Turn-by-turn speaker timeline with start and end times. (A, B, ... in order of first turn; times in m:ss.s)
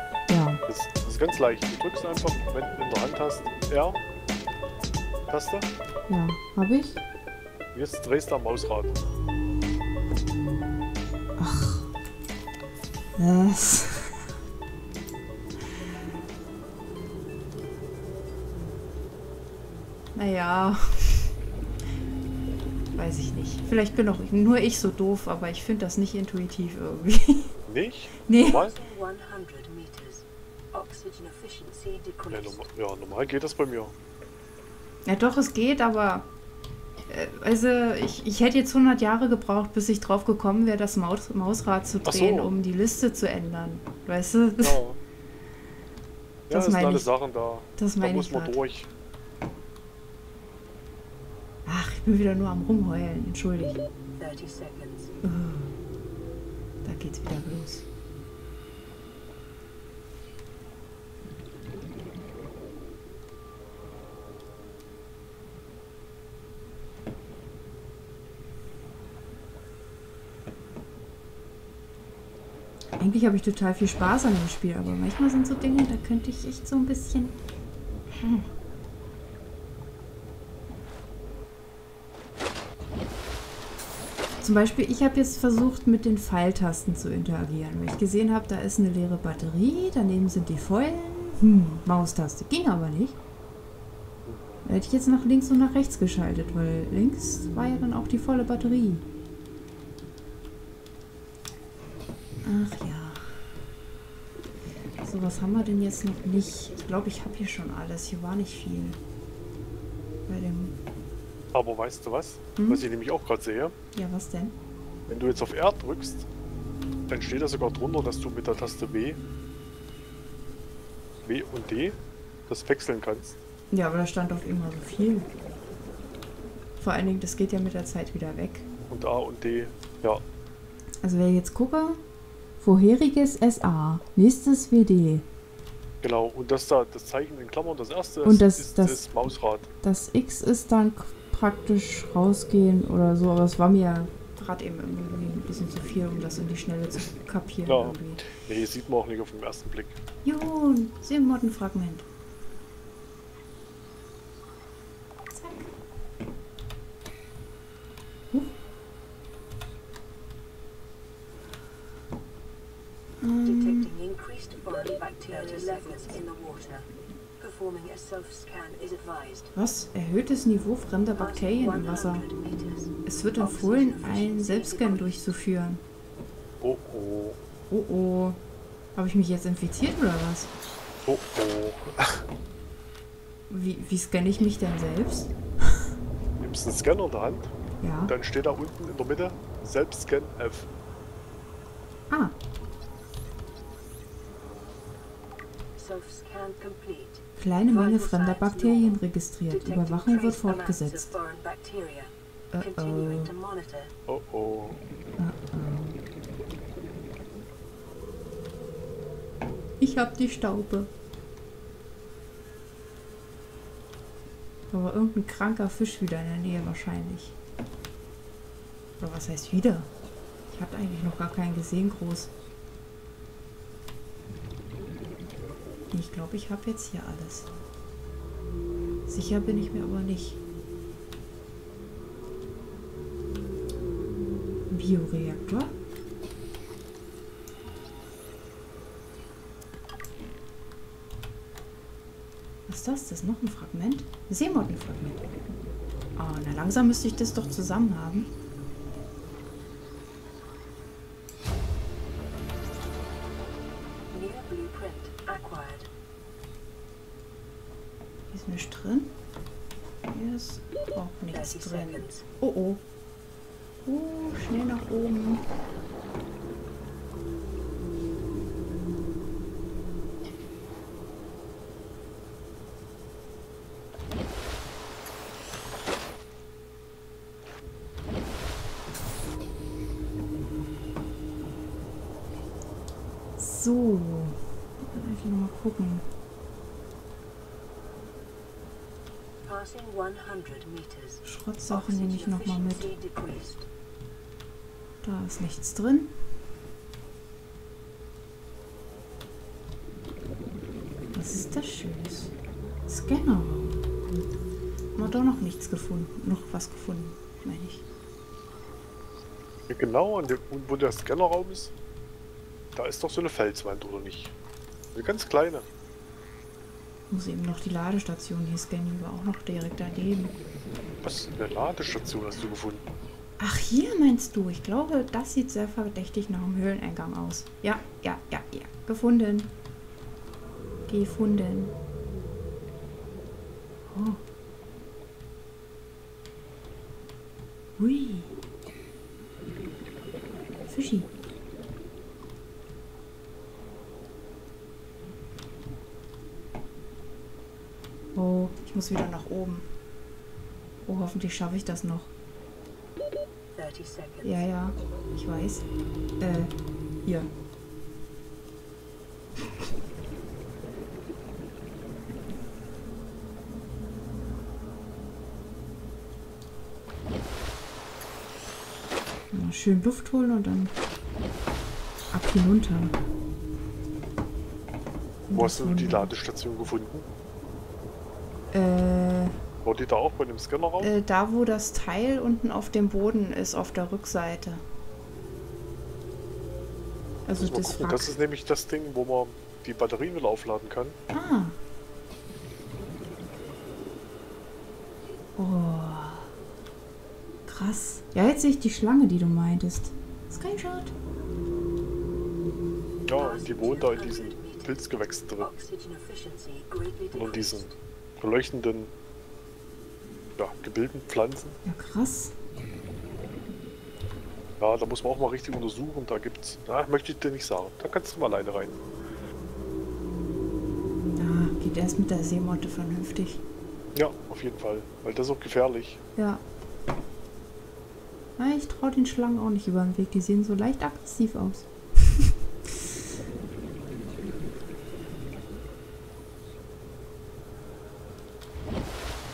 0:00.3-0:00.6 A
0:00.7-0:04.0 B
0:05.3-0:05.7 B
0:06.1-0:07.0 A
0:07.7-0:09.0 B
0:11.4-0:11.9 A
0:13.2-0:14.2 A
0:20.1-0:21.3 A
0:22.9-0:27.5 A
0:27.6-0:28.8 B
0:28.2-0:28.6 A
0:28.4-0:32.6 C
0:32.3-0:33.9 B
0:35.0-0:36.3 A
0:37.1-0:44.8 A
0:42.0-0:42.5 B
0:44.6-0:45.0 B
0:46.5-0:48.9 B
0:46.5-0:47.1 A
0:47.8-0:48.6 A
0:51.6-0:53.8 A
0:54.2-0:55.1 C
0:55.2-0:55.7 A
0:56.8-0:57.8 A
1:13.0-1:17.3 A
1:18.1-1:18.5 A
1:24.4-1:33.2 A
1:34.6-1:39.0 A
1:42.4-1:43.5 A
1:45.0-1:49.0 A
1:50.3-1:50.7 A
1:51.5-1:53.7 B
1:52.6-1:52.8 A
1:53.9-1:54.6 A
1:55.1-1:56.3 B
1:57.1-1:59.2 B
2:01.2-2:03.4 B
2:03.7-2:05.3 A
2:06.8-2:08.6 A
2:08.9-2:10.2 B
2:11.0-2:12.0 A
2:12.6-2:15.2 A
2:16.0-2:19.7 B
2:18.2-2:19.0 A
2:19.8-2:28.3 A
2:27.6-2:30.0 B
2:30.2-2:32.0 A
2:35.3-2:35.7 A
2:43.2-2:43.9 A
2:43.4-2:46.9 C
2:45.3-2:46.2 A
2:47.4-2:49.5 C
2:49.5-2:52.2 A
2:51.2-2:55.3 C
2:53.0-2:55.8 A
2:56.6-2:57.4 B
2:57.7-2:58.4 A
2:58.9-3:00.5 A
3:01.0-3:02.2 B
3:03.5-3:05.3 A
3:06.4-3:07.5 B
3:07.8-3:08.1 A
3:08.0-3:10.7 B
3:15.8-3:23.9 C
3:17.4-3:21.1 A
3:22.5-3:23.3 A
3:24.1-3:24.8 B
3:25.2-3:26.0 A
3:29.8-3:30.9 A
3:34.7-3:37.3 A
3:39.0-3:39.9 A
3:40.5-3:42.3 A
3:45.9-3:47.5 A
3:49.1-3:50.4 A
3:54.7-3:55.7 A
4:02.7-4:05.2 A
4:06.2-4:08.3 A
4:14.1-4:15.9 C
4:18.3-4:19.2 A
4:20.1-4:22.8 A
4:21.3-4:22.2 C
4:23.8-4:25.4 A
4:43.4-4:46.0 A
4:49.4-4:53.7 C
4:51.2-4:52.9 A
4:55.0-4:56.1 A
5:01.1-5:02.3 A
5:02.9-5:03.9 A
5:04.9-5:07.8 A
5:09.7-5:11.7 B
5:12.7-5:14.3 B
5:14.9-5:15.6 B
5:17.1-5:20.3 A
5:21.0-5:22.8 B
5:23.4-5:29.5 A
5:30.9-5:31.7 A
5:33.9-5:34.2 A
5:37.8-5:38.3 A
5:40.7-5:41.1 A
5:48.1-5:49.7 A
5:50.8-5:52.1 A
5:53.5-5:54.4 C
5:54.2-5:55.6 A
5:56.2-5:57.3 A
6:09.3-6:10.7 A
6:12.1-6:13.0 A
6:15.3-6:16.1 A
6:15.3-6:17.1 B
6:18.5-6:19.4 A
6:19.6-6:20.9 B
6:20.8-6:24.6 A
6:27.2-6:28.1 A
6:27.4-6:31.0 B
6:31.1-6:31.6 A
6:35.4-6:36.3 A
6:37.5-6:40.9 A
6:43.1-6:45.5 B
6:43.1-6:47.8 C
6:47.1-6:48.9 B
6:50.4-6:51.6 B
6:51.6-6:52.3 A
6:54.6-6:58.8 B
7:01.0-7:03.4 A
7:03.9-7:06.0 B
7:06.2-7:06.4 A
7:08.4-7:12.7 A